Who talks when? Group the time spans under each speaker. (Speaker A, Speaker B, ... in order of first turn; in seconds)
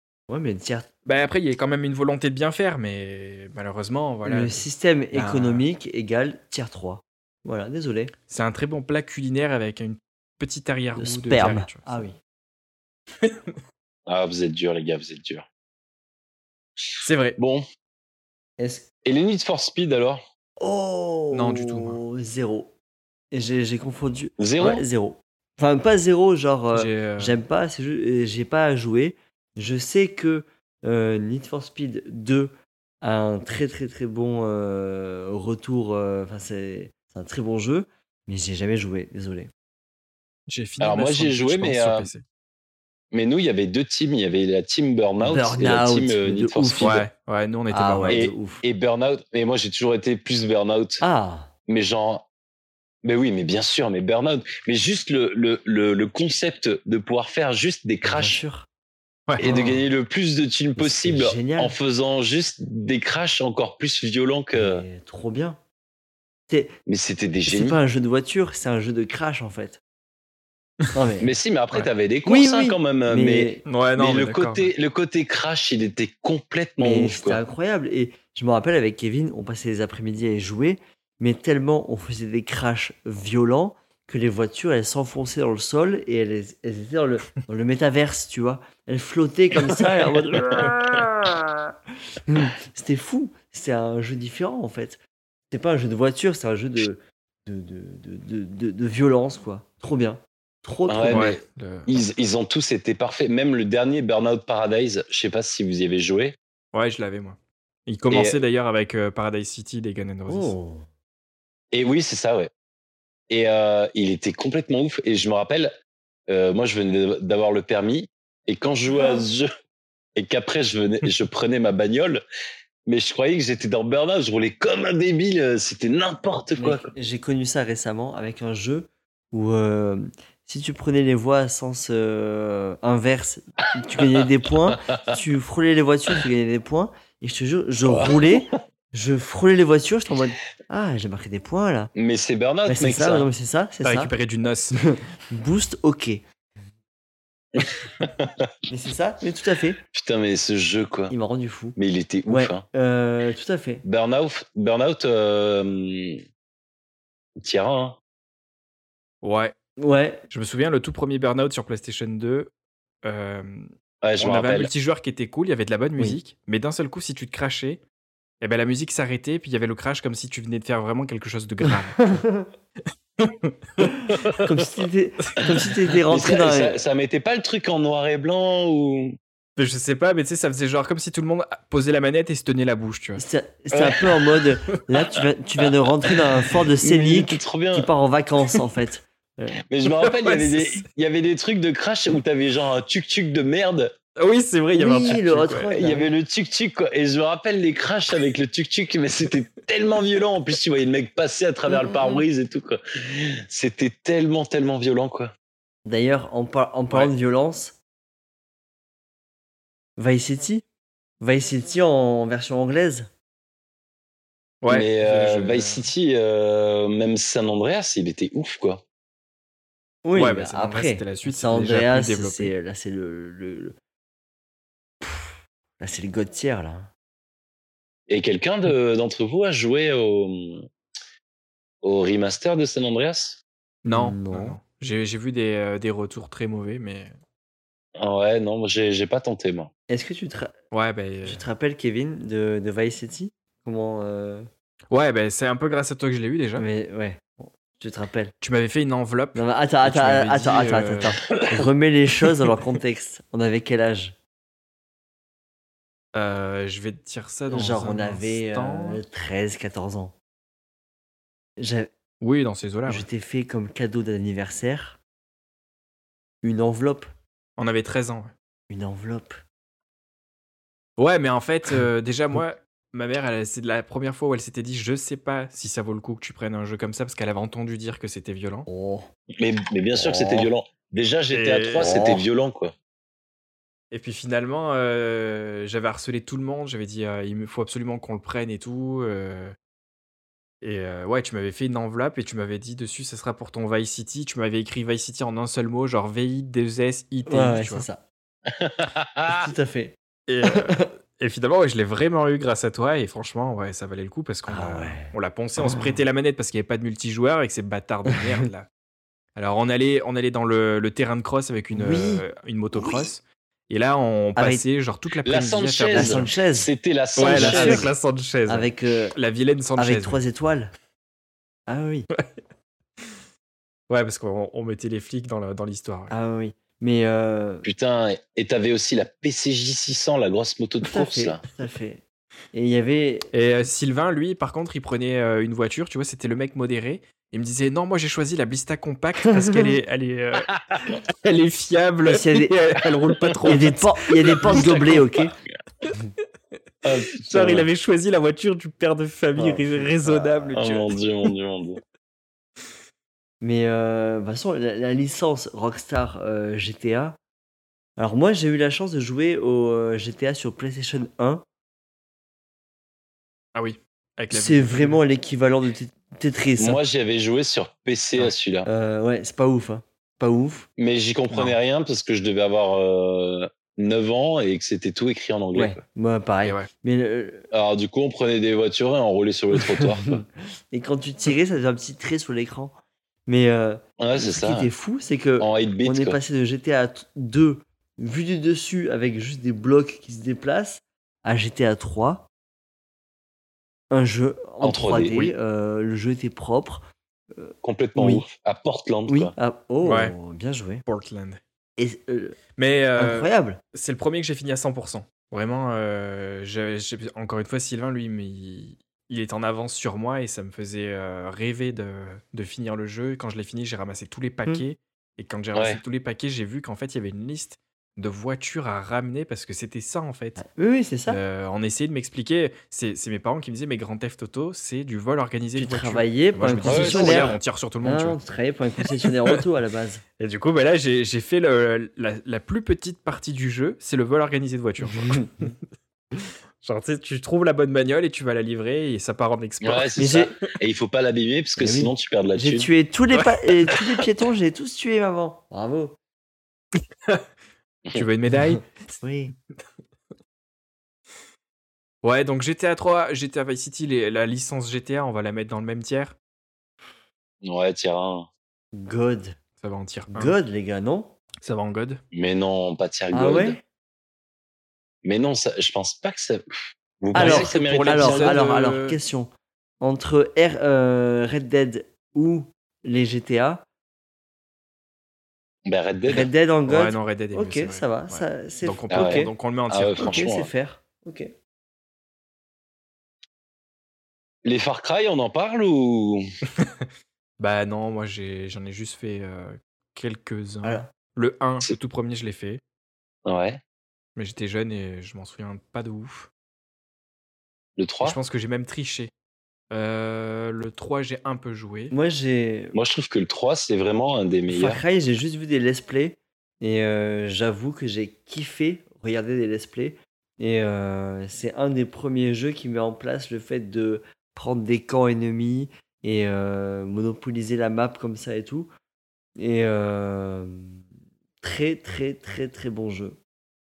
Speaker A: 0.3-0.9, 4.2-8.1, 10.9-12.2, 18.6-18.9, 20.6-22.7, 23.3-39.5, 45.2-47.0, 47.7-48.6, 51.0-51.5, 58.0-58.7, 59.4-59.8, 60.8-61.8, 64.5-65.6, 66.5-66.7, 67.5-69.8, 70.9-71.3, 72.2-73.6, 76.8-91.7, 92.2-95.0, 95.5-101.3, 110.3-110.8, 118.9-119.2, 126.6-141.9, 142.7-144.1, 144.8-146.2, 148.7-149.8, 151.1-153.8, 159.8-160.2, 171.7-172.5, 174.4-176.8, 183.2-189.6, 194.8-196.1, 205.8-207.8, 210.0-210.6, 211.2-213.1, 220.0-223.8, 225.0-226.9, 233.9-234.6, 239.9-240.5, 241.2-244.5, 246.6-248.3, 249.3-254.2, 257.5-260.1, 261.6-261.9, 262.9-265.0, 266.4-267.1, 268.7-269.4, 278.7-279.1, 279.9-280.5, 281.8-282.2, 297.3-298.0, 299.3-300.9, 304.5-306.0, 311.7-313.0, 314.4-314.6, 315.9-317.9, 318.5-319.1, 319.8-320.7, 321.7-322.1, 326.1-327.6, 330.8-333.3, 339.3-339.7, 342.1-342.6, 343.4-345.3, 349.4-350.6, 353.4-357.2, 358.0-361.4, 364.3-366.8, 368.2-370.7, 375.5-377.4, 379.6-392.3, 393.9-398.2, 399.1-400.8, 401.8-402.4, 402.9-403.6, 420.4-421.2, 425.6-430.0, 435.0-435.3, 440.0-440.3, 441.6-446.0, 448.5-449.3, 458.7-459.4, 460.1-461.1, 463.1-463.6, 467.1-473.6, 476.1-479.3, 480.0-481.3, 490.6-490.9, 501.9-502.7, 504.5-518.7, 519.4-520.8, 521.4-523.2
Speaker B: 1.1-5.6, 8.3-12.0, 13.2-13.5, 17.0-17.4, 21.3-22.0, 26.7-27.4, 40.5-42.2, 46.8-48.2, 59.3-59.6, 73.7-74.7, 101.1-102.0, 106.7-110.5, 143.8-144.8, 159.2-159.5, 160.3-162.5, 163.0-167.8, 168.4-172.2, 173.2-174.1, 179.6-183.2, 190.0-190.8, 194.2-195.8, 214.6-215.8, 220.1-222.5, 233.8-237.1, 240.7-241.4, 244.9-246.7, 248.4-251.2, 256.1-259.0, 262.2-263.1, 267.6-268.3, 271.0-278.7, 281.3-281.9, 283.9-289.5, 290.6-297.9, 300.3-308.7, 309.4-316.3, 317.1-320.2, 323.9-326.1, 333.3-345.0, 347.2-350.9, 363.5-365.0, 376.4-376.7, 399.8-400.1, 400.9-401.4, 402.6-420.4, 421.1-428.2, 429.0-429.4, 430.2-435.5, 436.6-439.9, 443.2-443.8, 447.9-448.7, 452.0-456.1, 459.6-460.3, 461.4-462.0, 467.1-469.0, 476.7-480.2, 486.6-486.9, 487.4-492.6, 494.1-496.3, 498.0-499.1, 499.7-501.9
Speaker C: 14.1-15.4, 16.8-17.6, 19.0-20.2, 24.4-24.8, 40.8-42.1, 43.1-47.0, 48.1-51.0, 51.7-52.2, 53.0-58.4, 59.4-64.8, 66.9-67.8, 71.2-77.4, 100.9-106.4, 108.1-108.4, 111.7-112.5, 113.3-115.7, 116.3-119.5, 120.2-122.2, 122.8-126.9, 137.8-138.4, 141.9-143.3, 147.6-148.3, 149.9-151.1, 151.8-152.6, 153.8-156.2, 157.4-158.0, 164.0-164.7, 176.1-179.2, 183.7-184.0, 186.8-187.9, 189.7-193.9, 195.7-205.3, 214.7-218.8, 228.1-230.7, 231.8-233.4, 238.0-239.7, 279.4-282.7, 298.5-299.5, 315.2-317.9, 327.6-331.4, 344.3-345.0, 346.8-347.7, 350.5-351.8, 366.6-368.7, 370.8-375.8, 377.5-380.2, 384.0-384.7, 385.4-386.2, 394.6-395.3, 397.6-399.3, 415.5-415.8, 426.6-427.4, 439.6-442.7, 457.4-458.3, 462.1-463.6, 465.0-466.4, 467.0-468.4, 475.6-476.3, 478.9-480.5, 484.4-486.2, 493.2-493.6, 497.8-498.2, 502.7-504.8